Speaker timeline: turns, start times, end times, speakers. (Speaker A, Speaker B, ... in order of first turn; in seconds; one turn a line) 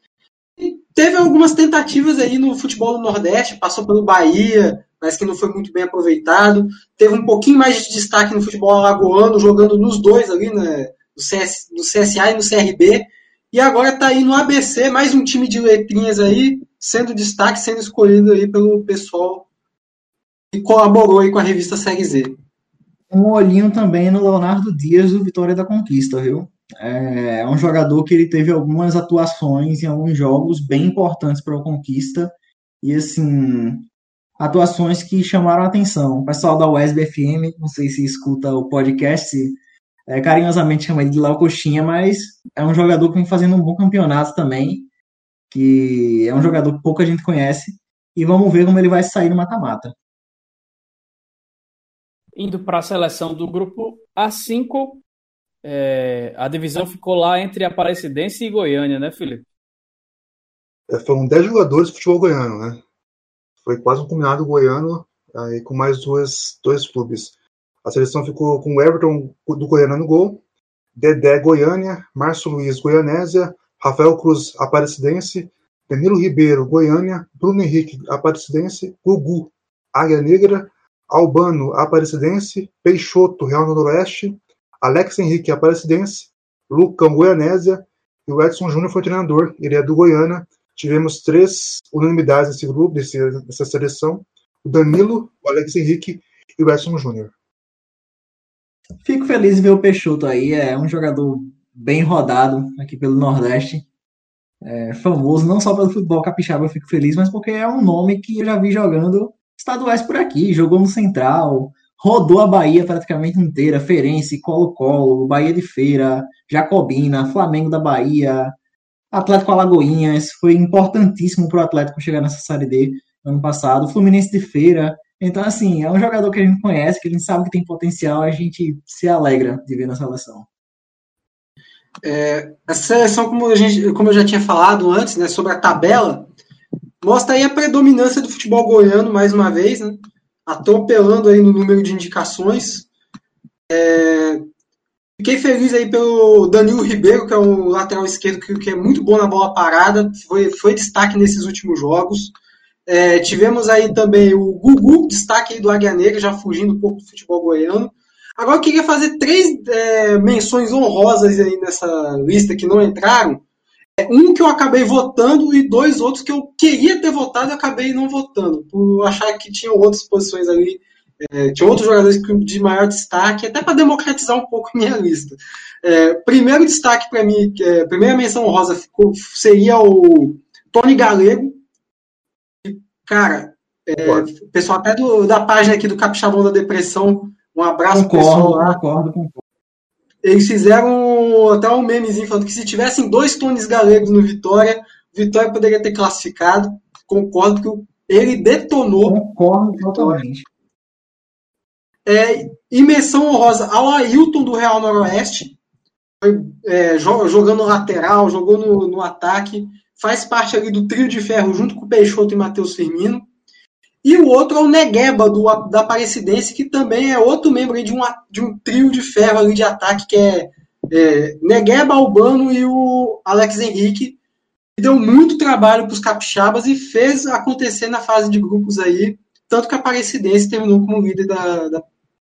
Speaker A: 0.6-19.5
Speaker A: 20.5-22.3
Speaker B: 23.1-33.9
Speaker B: 34.4-44.9
Speaker B: 45.5-49.9
Speaker C: 52.4-55.0
Speaker C: 55.6-59.4
Speaker D: 60.9-62.8
Speaker D: 63.6-70.4
Speaker D: 71.0-97.3
Speaker B: 99.0-103.8
Speaker B: 104.6-118.5
Speaker B: 119.1-130.5
Speaker A: 132.0-136.3
Speaker A: 137.0-142.9
Speaker A: 143.7-144.4
Speaker A: 145.2-152.3
Speaker A: 152.9-163.4
Speaker A: 164.0-181.6
Speaker A: 182.6-188.8
Speaker D: 184.0-184.3
Speaker B: 187.9-189.4
Speaker A: 190.2-199.2
Speaker B: 199.1-200.4
Speaker A: 199.9-200.2
Speaker A: 202.1-205.6
Speaker A: 206.2-213.3
Speaker A: 214.0-224.2
Speaker A: 224.8-231.8